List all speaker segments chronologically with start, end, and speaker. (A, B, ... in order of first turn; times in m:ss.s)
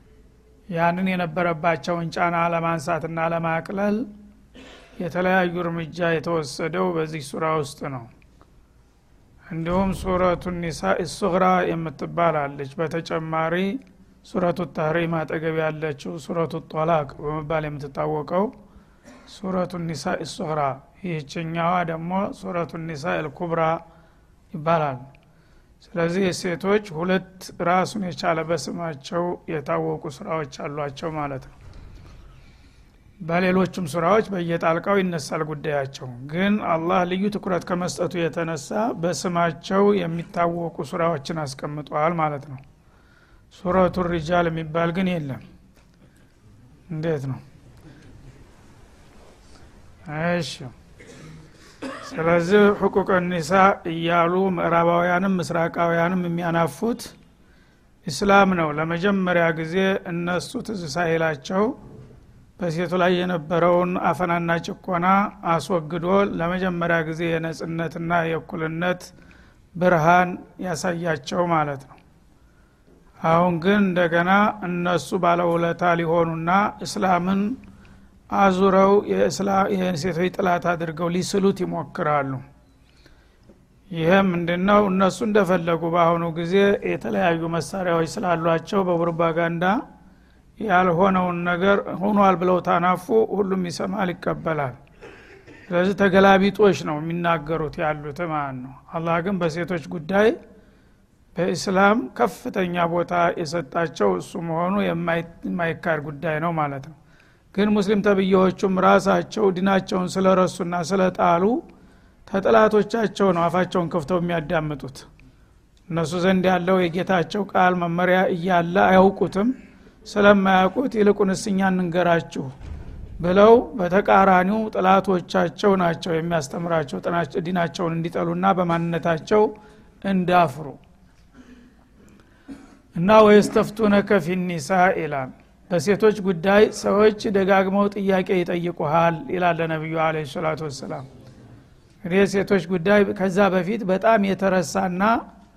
0:00.7-0:04.0 A
0:05.0-0:08.1 A
0:09.5-0:18.5 A
0:19.3-0:23.8 A
0:24.5-0:25.0 A
0:25.8-0:31.5 A
0:33.2-0:42.6 A
0:43.5-0:45.4 A
0:46.9-0:47.4 A
0:50.1-0:50.7 A
0:52.0-0:57.1 A
0:58.0-1:01.8 A
1:02.6-1:09.1 A
1:09.8-1:12.0 A
1:13.2-1:17.6 A
1:18.3-1:22.4 A
1:23.9-1:29.8 A
1:30.6-1:34.8 A
1:35.7-1:40.3 A
1:41.3-1:46.9 A
1:47.5-1:51.6 A
1:52.3-1:55.1 A
1:55.9-1:59.5 A
2:00.0-2:02.5 A
2:03.2-2:09.5 A
2:10.0-2:10.8 A
2:13.0-2:21.0 A
2:22.0-2:25.2 A